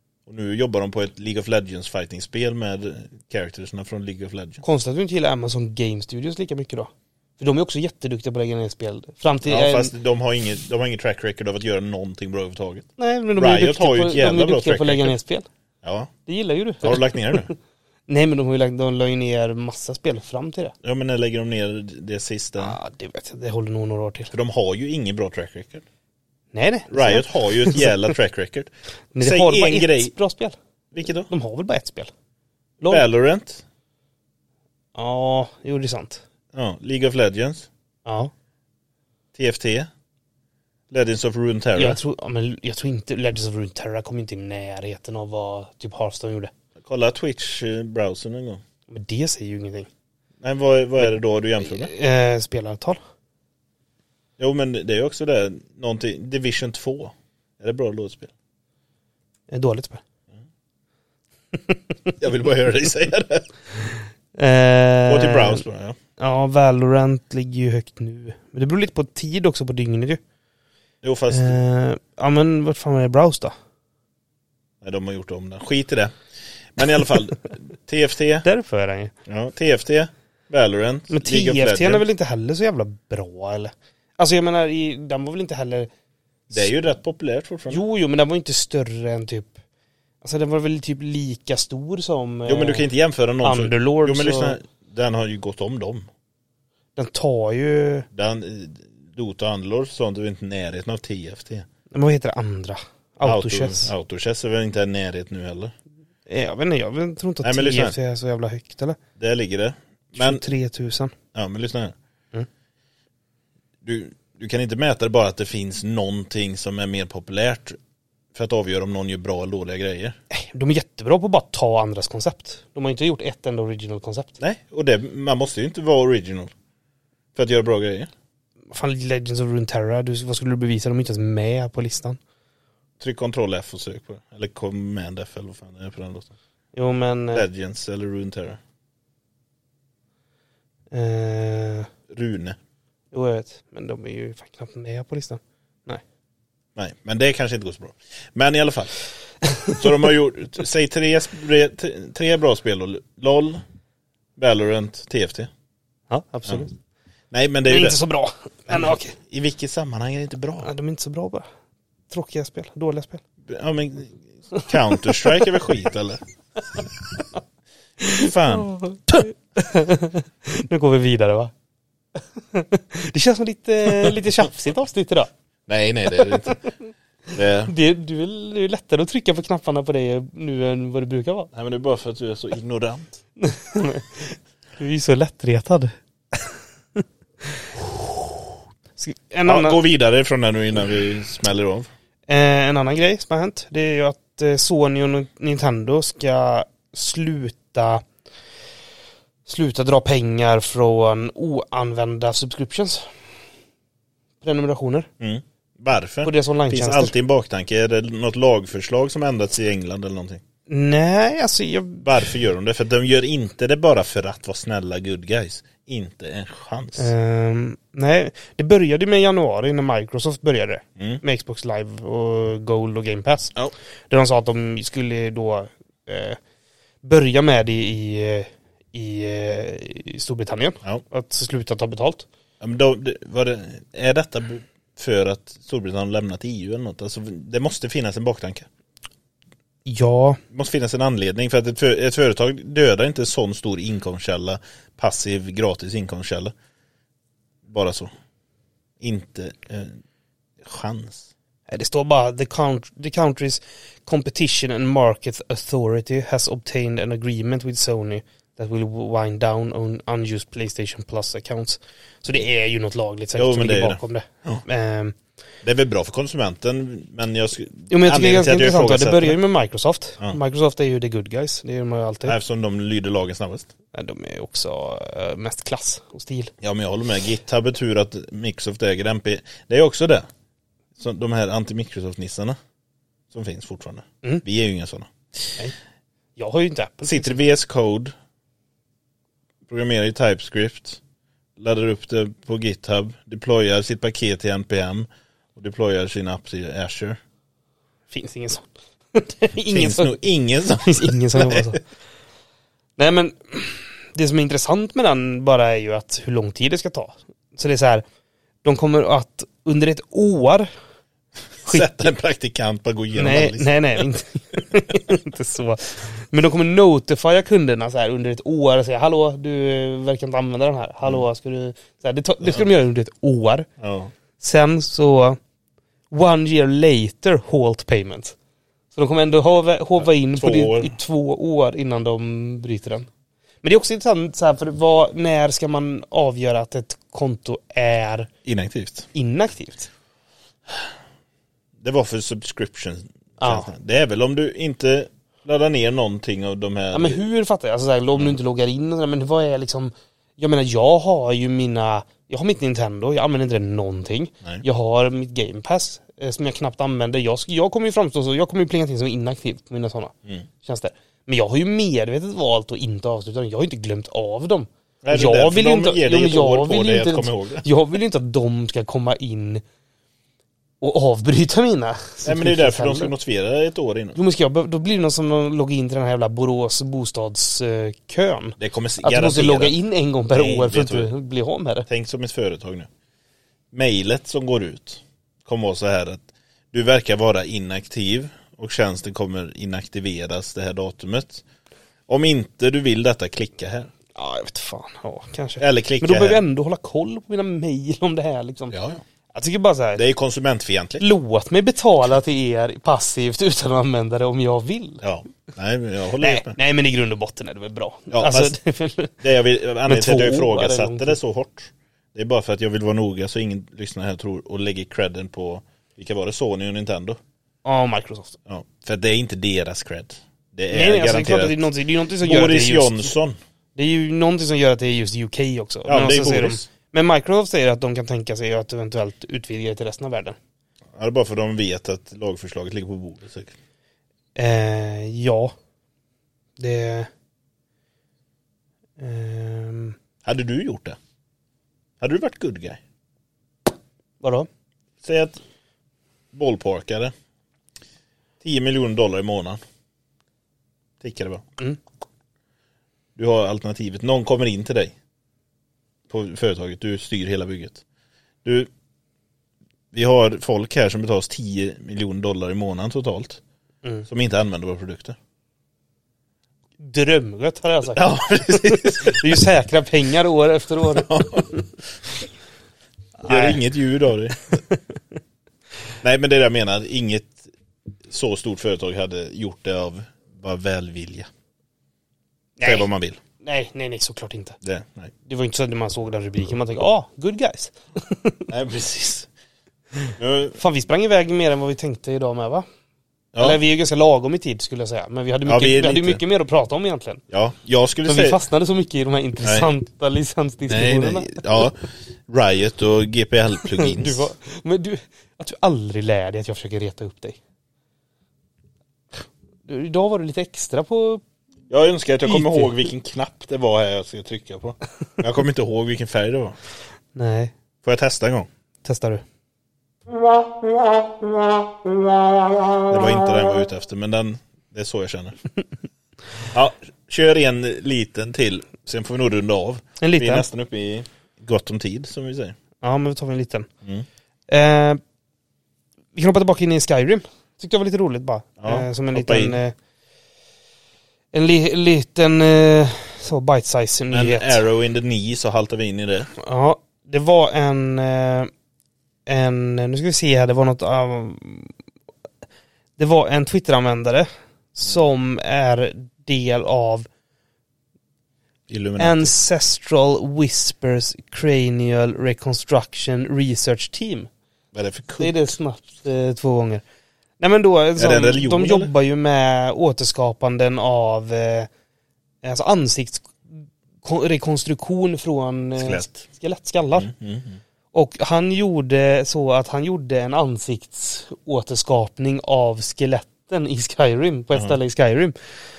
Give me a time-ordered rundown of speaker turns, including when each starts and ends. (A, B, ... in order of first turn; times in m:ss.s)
0:00.3-0:04.6 A
0:04.6-0:09.9 B
0:09.5-0:15.2 A
0:13.0-0:15.5 B
0:15.8-0:16.1 A
0:16.3-0:17.6 B
0:16.8-0:17.5 A
0:18.1-0:20.7 B
0:20.8-0:22.8 A
0:22.6-0:24.3 B
0:24.3-0:25.8 A
0:26.5-0:28.1 B
0:26.9-0:30.1 A
0:29.1-0:30.6 B
0:30.9-0:31.3 A
0:31.3-0:32.1 B
0:32.9-0:33.6 A
0:35.0-0:36.2 B
0:36.5-0:37.7 A
0:38.1-0:38.3 B
0:39.4-0:39.9 A
0:40.9-0:42.0 A
0:41.8-0:46.5 B
0:46.8-0:48.6 A
0:48.9-0:49.9 B
0:50.4-0:51.9 A
0:51.6-0:53.0 B
0:54.4-0:58.3 A
0:59.5-1:00.0 B
1:01.5-1:02.1 B
1:02.2-1:03.5 A
1:04.4-1:05.6 B
1:05.1-1:06.0 A
1:06.2-1:10.2 B
1:11.0-1:11.6 A
1:11.3-1:13.5 B
1:14.8-1:16.2 A
1:16.8-1:18.4 A
1:18.4-1:19.1 B
1:19.3-1:22.0 A
1:21.1-1:25.9 B
1:26.5-1:27.8 A
1:27.7-1:29.6 B
1:30.2-1:32.8 B
1:32.5-1:36.1 A
1:33.4-1:34.6 B
1:37.0-1:38.1 B
1:38.1-1:41.7 A
1:41.9-1:43.9 B
1:43.2-1:45.8 A
1:46.3-1:49.0 B
1:47.4-1:48.0 A
1:49.2-1:50.4 A
1:50.2-1:51.1 B
1:51.3-1:51.9 A
1:53.8-1:57.8 A
1:58.3-2:00.2 A
2:00.3-2:04.4 B
2:04.4-2:06.5 A
2:07.4-2:08.1 A
2:08.7-2:12.2 B
2:13.0-2:16.3 A
2:16.7-2:17.5 B
2:17.3-2:18.6 A
2:20.9-2:21.9 B
2:22.1-2:22.6 A
2:23.1-2:26.0 B
2:26.8-2:28.9 A
2:29.4-2:29.8 B
2:29.8-2:33.6 A
2:34.4-2:35.5 A
2:36.1-2:36.8 B
2:37.3-2:38.0 A
2:37.7-2:39.2 B
2:38.7-2:40.7 A
2:40.6-2:41.4 B
2:42.1-2:43.2 B
2:43.5-2:46.2 A
2:44.5-2:45.5 B
2:48.0-2:51.5 B
2:48.1-2:49.3 A
2:52.4-2:55.3 B
2:53.9-2:54.2 A
2:55.7-2:56.6 A
2:56.1-2:56.9 B
2:57.4-2:57.7 A
2:57.7-3:01.5 B
3:01.5-3:03.2 A
3:03.4-3:07.7 B
3:09.0-3:09.8 B
3:09.4-3:11.9 A
3:12.3-3:18.0 B
3:19.5-3:23.1 B
3:24.4-3:25.1 B
3:25.2-3:30.4 A
3:26.2-3:27.1 B
3:30.7-3:32.1 B
3:32.0-3:37.1 A
3:37.0-3:43.6 B
3:44.1-3:46.4 B
3:47.0-3:52.3 B
3:52.6-3:58.7 A
3:59.9-4:00.4 B
4:00.5-4:06.5 A
4:07.6-4:08.1 A
4:09.0-4:10.0 A
4:10.6-4:11.3 A
4:11.7-4:25.2 B
4:23.4-4:24.6 A
4:25.6-4:29.4 A
4:27.9-4:32.4 B
4:32.2-4:33.7 A
4:33.9-4:36.5 B
4:36.6-4:40.3 A
4:41.0-4:42.6 A
4:43.3-4:45.6 A
4:46.4-4:47.4 B
4:47.0-4:48.1 A
4:49.7-4:51.0 A
4:51.6-4:57.2 A
4:58.1-5:00.2 B
4:59.7-5:01.8 A
5:00.8-5:01.8 B
5:03.0-5:08.0 B
5:08.6-5:10.7 B
5:11.6-5:14.0 A
5:11.7-5:11.9 B
5:13.2-5:23.7 B
5:23.8-5:24.1 A
5:24.4-5:25.4 B
5:26.1-5:28.4 B
5:28.9-5:33.1 B
5:30.0-5:30.9 A
5:33.6-5:38.3 B
5:38.4-5:39.1 A
5:39.1-5:39.9 B
5:41.8-5:47.2 A
5:43.4-5:43.7 B
5:46.9-6:09.6 B
6:05.0-6:07.7 A
6:10.8-6:13.1 B
6:12.2-6:14.2 A
6:14.2-6:21.9 B
6:18.6-6:19.7 A
6:20.3-6:21.1 A
6:21.9-6:22.9 A
6:23.7-6:31.4 A
6:32.1-6:33.9 A
6:34.2-6:38.8 B
6:35.6-6:36.4 A
6:38.7-6:39.0 A
6:39.3-6:40.0 B
6:40.0-6:41.1 A
6:41.0-6:45.0 B
6:45.0-6:46.6 A
6:46.2-6:49.2 B
6:48.1-6:48.5 A
6:49.2-6:57.2 A
6:49.9-6:51.2 B
6:57.6-6:58.4 B
6:58.5-7:01.6 A
7:00.7-7:03.1 B
7:02.2-7:03.4 A
7:03.8-7:10.4 B
7:05.9-7:06.7 A
7:10.9-7:13.5 A
7:14.4-7:15.5 B
7:16.6-7:17.1 B
7:19.0-7:20.0 B
7:20.2-7:21.0 A
7:22.0-7:22.8 A
7:24.2-7:24.5 B
7:25.0-7:25.4 A
7:26.3-7:27.1 A
7:28.4-7:29.6 A
7:31.0-7:31.4 A
7:33.2-7:35.0 A
7:36.1-7:37.8 A
7:38.4-7:38.7 A
7:39.9-7:43.4 A
7:44.1-7:45.2 A
7:46.8-7:51.1 B
7:48.0-7:49.4 A
7:50.9-7:51.5 A
7:53.2-7:53.6 B
7:53.3-7:54.6 A
7:54.5-7:54.8 B
7:56.0-7:57.5 A
7:58.1-8:01.3 A
8:02.6-8:02.9 B
8:02.6-8:03.2 A
8:03.4-8:04.6 B
8:04.6-8:05.1 A
8:05.3-8:08.5 B
8:08.5-8:09.3 A
8:10.2-8:10.6 A
8:10.6-8:12.7 B
8:13.3-8:13.6 A
8:13.4-8:17.2 B
8:15.5-8:16.2 A
8:17.3-8:18.4 A
8:18.1-8:21.4 B
8:20.7-8:24.3 A
8:23.6-8:27.4 B
8:29.7-8:31.2 B
8:31.7-8:36.6 A
8:32.2-8:32.8 B
8:37.2-8:37.5 B
8:37.8-8:38.5 A
8:38.8-8:39.2 B
8:42.9-8:45.4 A
8:46.5-8:52.6 A
8:50.0-8:50.5 B
8:52.8-8:53.7 B
8:54.5-8:55.0 B
8:56.2-8:59.7 B
8:58.6-8:59.6 A
9:01.3-9:04.6 B
9:04.1-9:06.3 A
9:06.4-9:08.5 B
9:09.3-9:11.7 B
9:13.0-9:17.1 B
9:18.7-9:19.3 A
9:19.0-9:24.3 B
9:24.7-9:25.5 A
9:25.2-9:26.8 B
9:27.4-9:31.7 B
9:28.0-9:28.9 A
9:32.4-9:37.1 B
9:35.8-9:36.2 A
9:37.0-9:37.6 A
9:37.9-9:45.4 B